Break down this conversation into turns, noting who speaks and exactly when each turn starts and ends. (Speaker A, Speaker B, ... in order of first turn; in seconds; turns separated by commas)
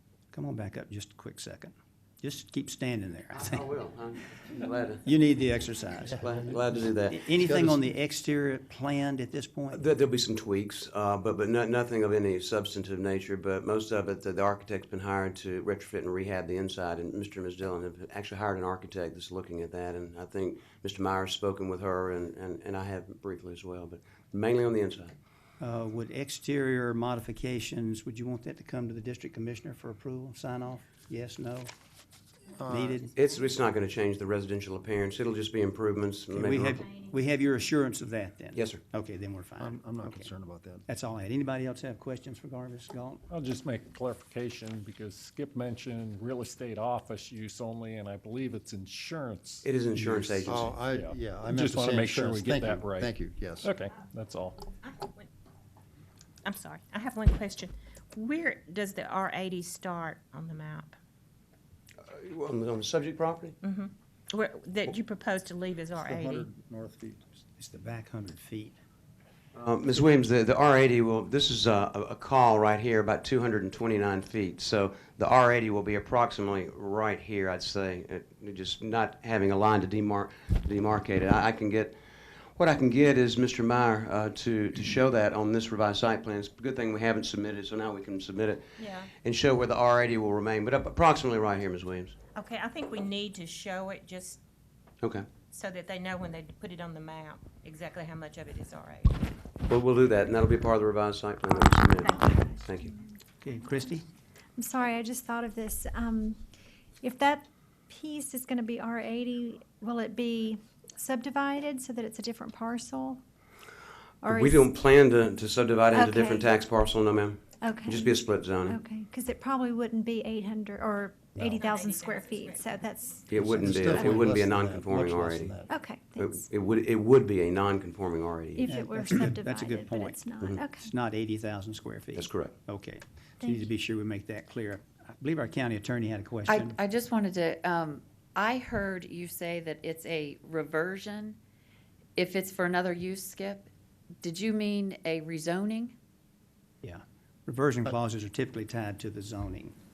Speaker A: 0.3-3.7, Speaker B: 3.3-5.1, Speaker A: 5.0-6.3, Speaker B: 6.2-7.4, Speaker A: 7.1-9.8, Speaker C: 7.4-7.8, Speaker B: 9.7-25.1, Speaker A: 25.6-31.7, Speaker C: 32.6-33.0, Speaker A: 32.7-33.1, Speaker B: 33.1-36.9, Speaker A: 36.4-40.3, Speaker B: 38.5-38.8, Speaker C: 39.6-40.9, Speaker A: 40.9-43.2, Speaker D: 43.3-54.7, Speaker B: 49.6-50.8, Speaker C: 50.5-53.7, Speaker E: 54.9-55.3, Speaker E: 56.5-61.0, Speaker B: 62.0-63.6, Speaker E: 63.6-66.5, Speaker C: 66.0-67.3, Speaker A: 67.6-68.8, Speaker B: 69.5-82.0, Speaker B: 82.5-92.2, Speaker E: 88.8-89.1, Speaker E: 92.3-94.4, Speaker B: 95.0-95.3, Speaker E: 95.5-99.2, Speaker B: 99.7-102.9, Speaker A: 103.4-104.0, Speaker F: 104.6-106.4, Speaker F: 107.0-113.2, Speaker F: 114.2-114.8, Speaker B: 114.3-118.8, Speaker F: 115.9-116.6, Speaker F: 117.6-124.3, Speaker B: 123.3-125.6, Speaker C: 123.4-125.7, Speaker F: 125.7-126.5, Speaker B: 126.2-128.6, Speaker F: 128.6-130.9, Speaker A: 128.7-130.2, Speaker A: 130.8-136.8, Speaker B: 132.2-132.6, Speaker F: 133.4-133.7, Speaker G: 136.5-141.4, Speaker G: 142.2-143.7, Speaker G: 144.2-146.0, Speaker A: 146.8-149.8